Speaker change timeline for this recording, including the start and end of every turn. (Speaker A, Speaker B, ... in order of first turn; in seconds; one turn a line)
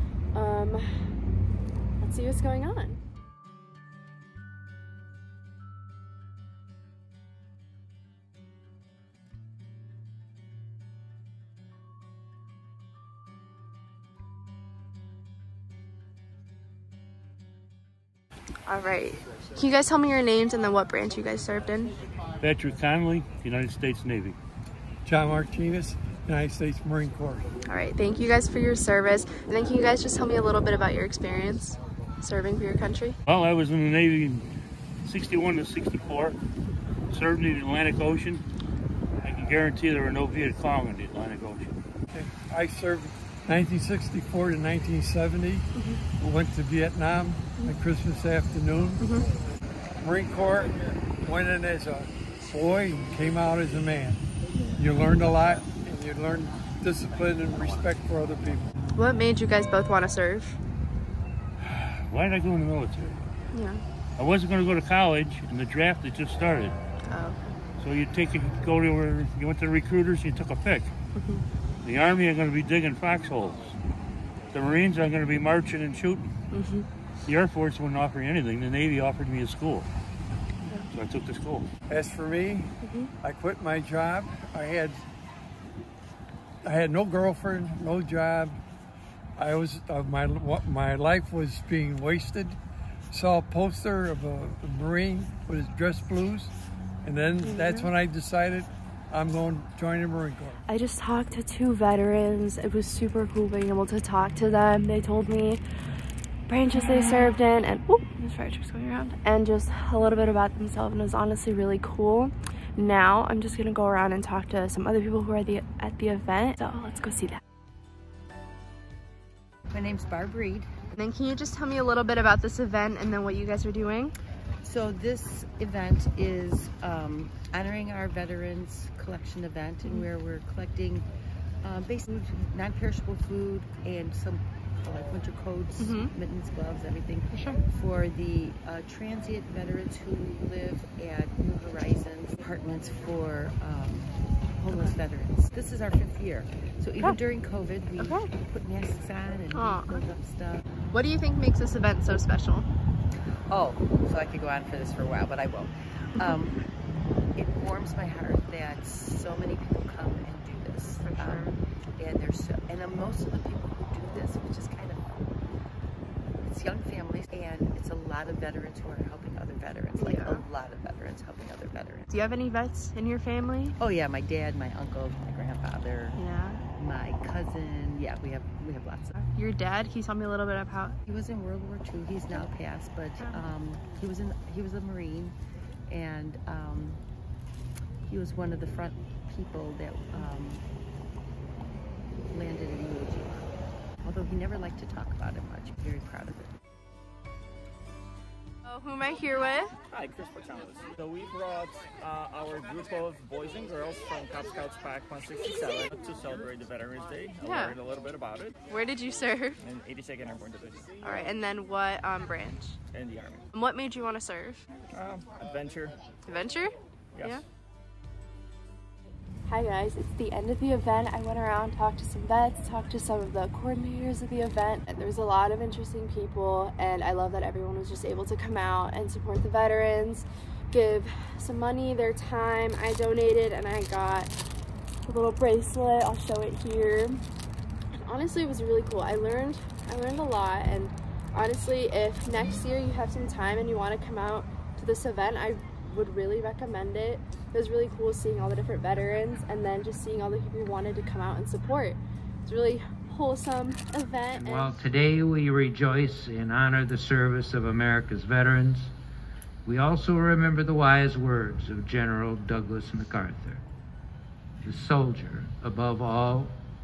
Speaker A: 0.3-0.9
Speaker A: 2.0-3.0
Speaker A: 18.7-22.0
Speaker B: 22.4-24.4
Speaker C: 25.1-27.5
Speaker A: 27.7-33.2
Speaker B: 33.3-34.5
Speaker B: 35.0-36.4
Speaker B: 37.1-38.4
Speaker B: 39.2-41.8
Speaker C: 42.1-49.1
Speaker A: 45.8-46.0
Speaker A: 49.0-49.3
Speaker C: 50.0-54.2
Speaker C: 54.8-58.7
Speaker A: 59.0-60.6
Speaker B: 61.6-63.2
Speaker A: 63.5-63.8
Speaker B: 64.2-66.8
Speaker A: 67.0-67.6
Speaker B: 67.8-70.9
Speaker A: 71.2-71.4
Speaker B: 71.8-73.8
Speaker B: 74.5-76.3
Speaker A: 76.5-76.9
Speaker B: 77.3-79.9
Speaker B: 80.9-81.7
Speaker C: 81.9-85.0
Speaker A: 82.8-83.1
Speaker C: 86.6-88.6
Speaker C: 89.4-92.6
Speaker C: 93.1-100.6
Speaker A: 97.4-97.9
Speaker A: 100.7-105.6
Speaker A: 106.5-117.4
Speaker D: 119.7-120.7
Speaker A: 121.0-124.2
Speaker D: 124.6-131.1
Speaker D: 131.6-150.7
Speaker A: 135.8-136.1
Speaker A: 137.3-137.6
Speaker A: 144.6-144.9
Speaker A: 148.0-148.3
Speaker A: 149.5-150.1
Speaker A: 150.9-152.7
Speaker D: 153.5-156.6
Speaker D: 157.3-165.3
Speaker A: 161.0-161.6
Speaker D: 166.4-172.1
Speaker A: 170.0-170.4
Speaker A: 172.1-173.8
Speaker D: 173.8-176.2
Speaker A: 176.2-176.6
Speaker D: 176.8-179.2
Speaker A: 179.2-181.0
Speaker D: 181.1-185.3
Speaker A: 183.2-183.5
Speaker D: 185.9-187.0
Speaker D: 188.1-190.7
Speaker D: 192.3-196.6
Speaker A: 198.7-199.7
Speaker E: 199.9-208.6
Speaker A: 207.4-207.8
Speaker A: 208.7-209.6
Speaker E: 209.6-211.1
Speaker A: 211.0-212.8
Speaker E: 212.9-213.5
Speaker A: 213.5-214.7
Speaker E: 214.9-215.9
Speaker A: 216.3-217.4
Speaker E: 217.1-217.4
Speaker A: 219.5-234.3
Speaker A: 235.1-237.2
Speaker A: 237.9-254.8
Speaker F: 254.3-258.9
Speaker F: 259.7-263.6
Speaker F: 264.6-266.6